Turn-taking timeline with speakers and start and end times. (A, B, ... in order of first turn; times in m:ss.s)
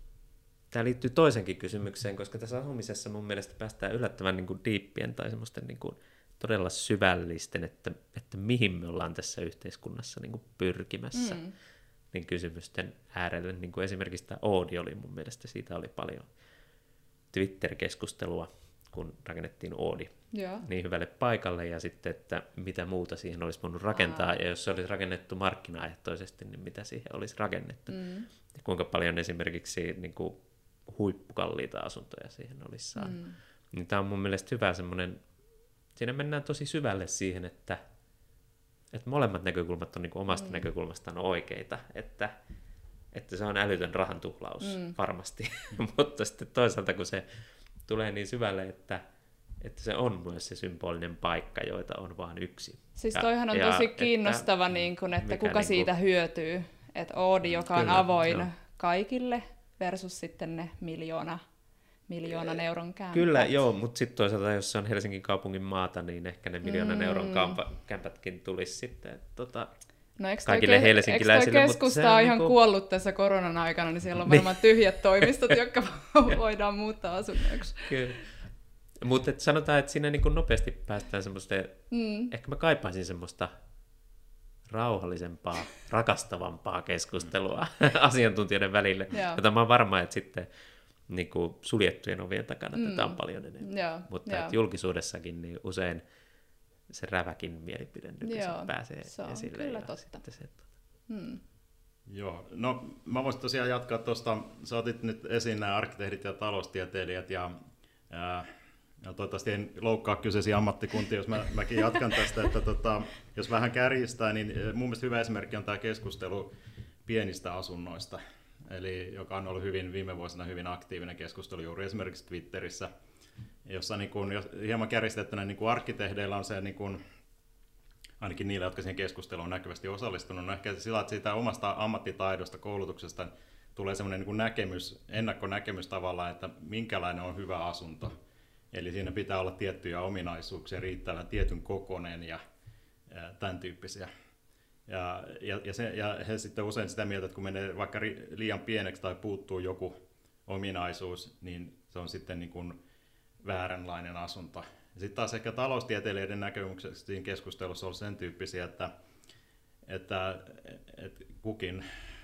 0:00.7-0:11.4 A
0:11.1-0:11.5 B
0:12.1-0:16.3 A
0:17.3-0:35.3 A
0:20.3-0:20.6 B
0:24.0-0:24.3 B
0:27.9-0:28.3 B
0:33.0-0:33.4 B
0:35.9-0:37.8 A
0:38.9-0:42.3 A
0:40.3-0:40.6 B
0:43.1-0:47.3 A
0:44.6-0:45.0 B
0:47.8-0:49.0 A
0:49.6-0:54.5 A
0:53.0-1:01.4 B
0:55.1-0:55.9 A
0:57.7-0:58.5 A
1:02.1-1:03.5 B
1:03.1-1:09.7 A
1:06.6-1:07.6 B
1:10.2-1:17.9 B
1:10.5-1:12.6 A
1:14.2-1:14.8 A
1:17.8-1:18.3 A
1:19.0-1:23.6 A
1:21.9-1:22.3 B
1:24.7-1:30.5 A
1:29.1-1:29.4 B
1:31.1-1:36.0 A
1:32.8-1:34.6 B
1:36.9-1:40.7 A
1:38.2-1:41.4 B
1:42.1-1:47.6 C
1:48.1-1:48.5 C
1:49.0-1:56.5 C
1:57.0-2:02.9 C
2:03.6-2:07.0 C
2:08.2-2:18.1 C
2:18.7-2:22.4 C
2:23.1-2:24.1 C
2:24.9-2:30.0 C
2:30.5-2:32.8 C
2:33.4-2:38.9 C
2:39.9-2:41.8 C